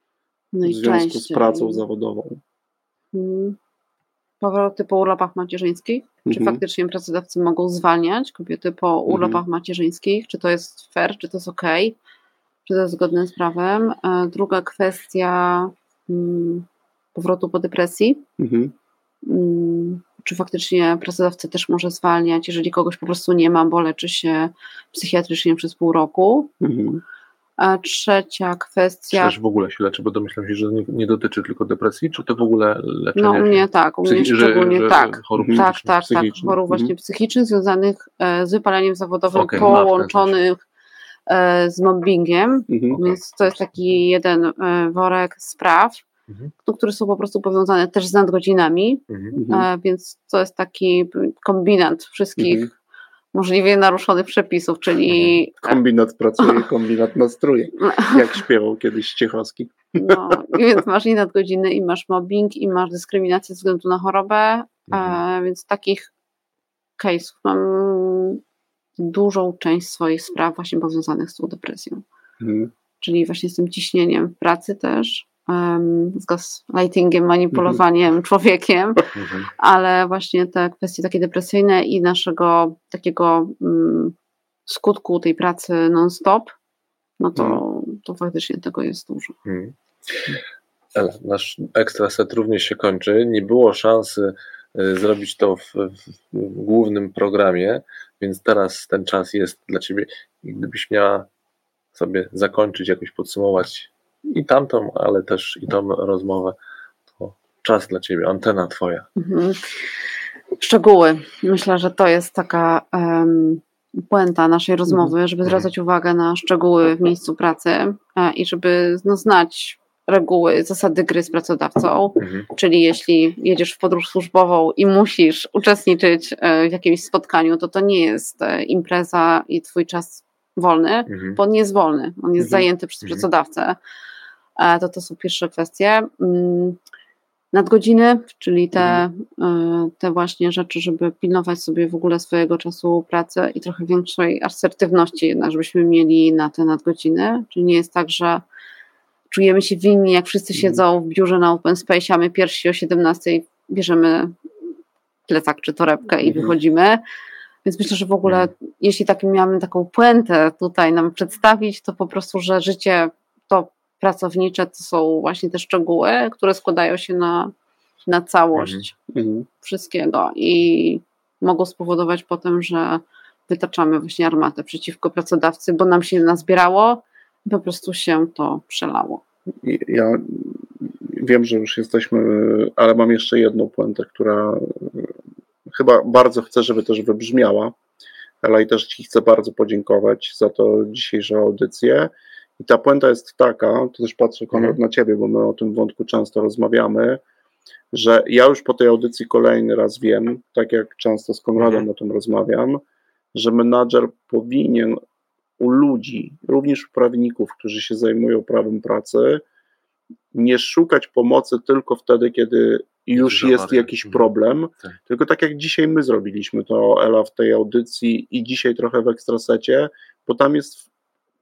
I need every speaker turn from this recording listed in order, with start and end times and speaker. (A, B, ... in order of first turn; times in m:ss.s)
0:00.5-0:01.8 A
0:00.6-0:02.4 B
0:03.1-0:03.6 A
0:04.4-0:12.0 A
0:06.2-0:06.6 B
0:09.1-0:09.4 B
0:12.6-0:18.2 A
0:18.4-0:18.7 B
0:19.2-0:26.5 A
0:26.6-0:27.0 B
0:27.6-0:29.4 A
0:29.1-0:36.1 C
0:33.2-0:40.6 A
0:35.4-0:36.9 B
0:39.3-0:40.4 C
0:41.3-0:46.0 A
0:42.7-0:43.0 B
0:42.9-0:44.0 C
0:46.3-0:46.5 C
0:46.6-0:52.7 A
0:49.1-0:49.4 C
0:49.4-0:49.7 B
0:52.4-0:52.7 B
0:53.3-0:55.8 A
0:55.1-0:55.4 C
0:55.6-1:00.6 B
0:57.8-0:58.3 A
1:00.0-1:06.1 A
1:04.9-1:05.2 C
1:07.0-1:08.4 A
1:09.0-1:12.0 A
1:12.4-1:12.7 B
1:13.0-1:24.1 A
1:17.5-1:17.8 B
1:19.1-1:19.5 C
1:24.7-1:26.5 A
1:27.2-1:29.4 A
1:27.4-1:27.6 B
1:29.4-1:30.4 C
1:30.9-1:41.3 C
1:41.9-1:46.6 C
1:47.2-1:49.1 C
1:49.2-1:49.6 A
1:50.6-2:13.8 A
1:55.4-1:55.7 C
2:02.2-2:02.5 C
2:11.1-2:11.4 C
2:12.4-2:12.7 B
2:14.6-2:16.8 A
2:17.5-2:28.4 A
2:29.3-2:34.3 A
2:30.6-2:30.8 B
2:35.3-2:37.0 A
2:36.2-2:36.5 B
2:37.6-2:47.5 A
2:38.2-2:38.5 C
2:48.1-2:48.9 A
2:48.5-2:48.9 C
2:49.1-2:49.5 B
2:49.6-2:59.2 A
2:59.6-3:05.1 B
3:05.7-3:07.7 B
3:08.4-3:17.2 B
3:14.5-3:14.8 C
3:17.9-3:22.8 B
3:21.6-3:21.9 C
3:23.3-3:25.0 B
3:25.6-3:29.4 B
3:30.3-3:40.8 B
3:33.1-3:34.3 C